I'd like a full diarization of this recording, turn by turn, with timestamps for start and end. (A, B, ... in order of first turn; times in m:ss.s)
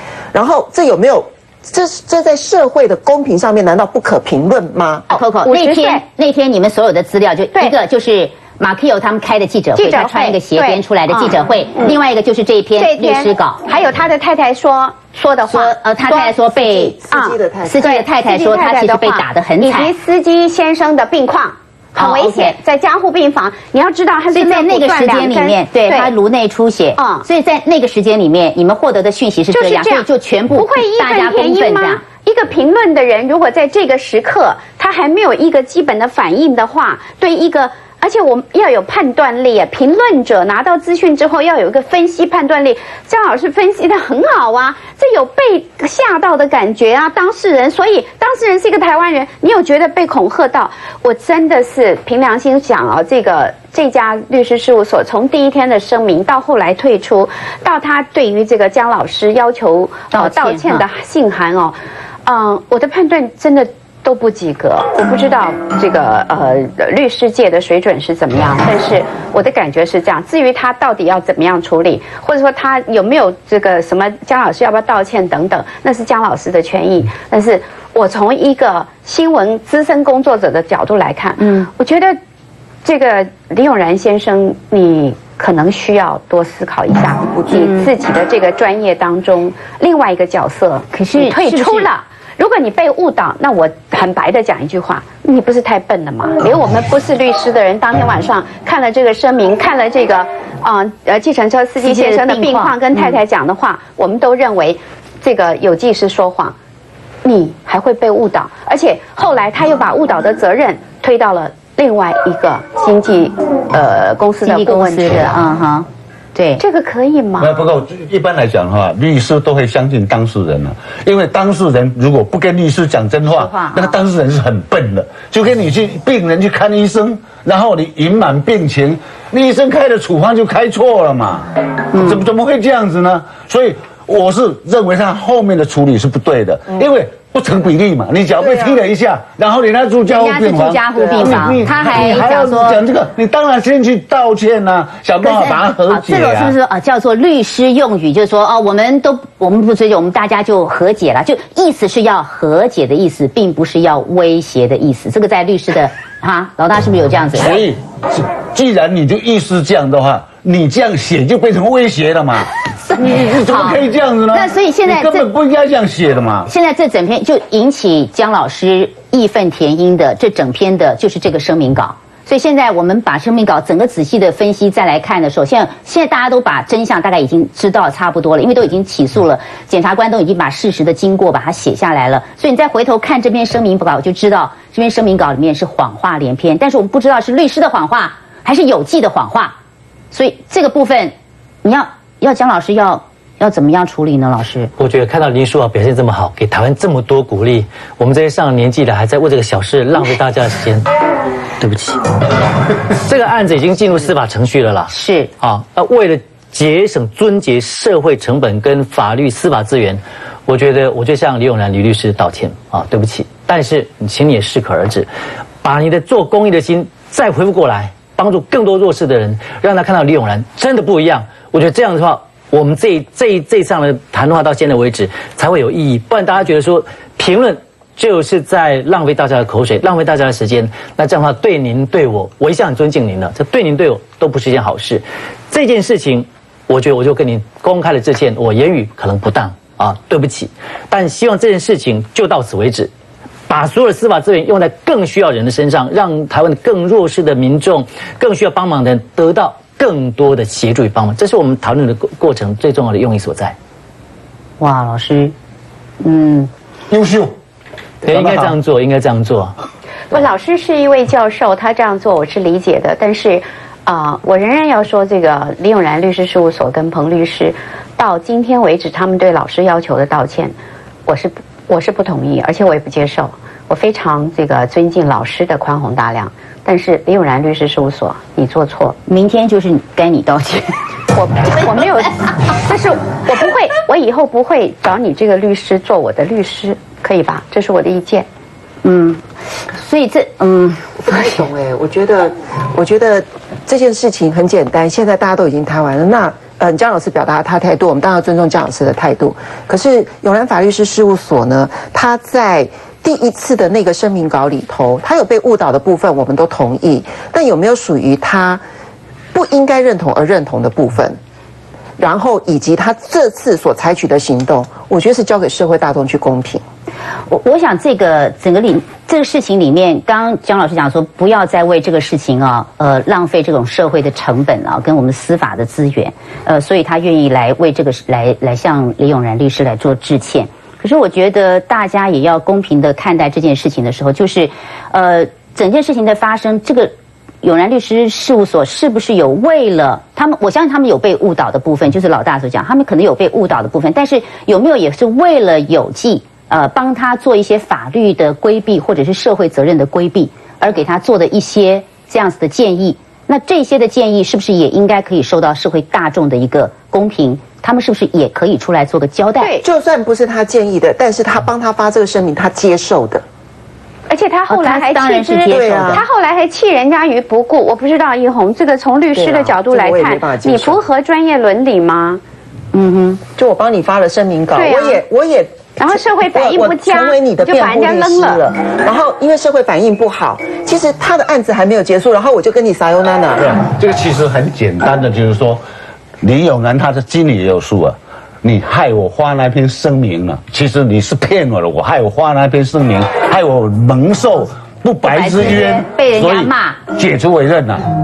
0:00.3-0:05.1 A
0:05.1-0:06.0 B
0:05.1-0:13.6 C
0:09.8-0:11.4 B
0:12.8-0:26.1 B
0:15.5-0:17.0 C
0:16.7-0:17.8 A
0:17.6-0:19.9 C
0:22.0-0:22.6 C
0:24.3-0:32.0 C
0:27.0-0:27.2 B
0:29.5-1:22.1 B
1:00.1-1:00.8 C
1:21.4-1:21.7 C
1:22.8-1:46.5 B
1:27.5-1:27.9 C
1:30.9-1:31.9 C
1:41.8-1:43.2 C
1:47.2-1:55.4 B
1:54.4-1:56.6 C
1:56.6-1:57.7 B
1:57.4-2:26.6 D
2:03.3-2:04.0 C
2:11.9-2:12.2 C
2:18.4-2:18.8 A
2:20.1-2:22.8 C
2:25.2-2:37.6 C
2:37.4-2:46.5 D
2:42.7-2:45.3 C
2:46.4-3:09.5 C
3:10.1-3:14.7 C
3:14.8-3:20.8 E
3:21.6-3:22.0 E
3:23.0-3:35.1 E
3:24.9-3:25.3 C
3:35.6-4:02.9 E
4:03.5-4:13.6 E
4:14.6-4:15.3 C
4:16.0-4:16.5 C
4:16.9-4:17.3 D
4:18.0-4:19.5 E
4:18.0-4:18.6 D
4:20.1-4:30.5 B
4:31.0-4:38.9 B
4:39.1-4:40.7 C
4:41.1-4:48.3 B
4:48.8-4:51.2 C
4:51.0-5:08.6 A
5:09.3-5:11.2 A
5:12.0-5:16.6 A
5:17.3-5:36.9 C
5:37.4-5:59.6 C
5:59.6-6:03.2 A
6:04.1-6:12.2 B
6:04.5-6:06.0 C
6:05.5-6:06.0 A
6:09.1-6:10.8 A
6:12.7-6:13.2 C
6:13.4-6:23.5 A
6:14.5-6:15.0 B
6:15.8-6:18.4 B
6:23.4-6:25.6 D
6:26.2-6:37.8 D
6:35.0-6:36.8 C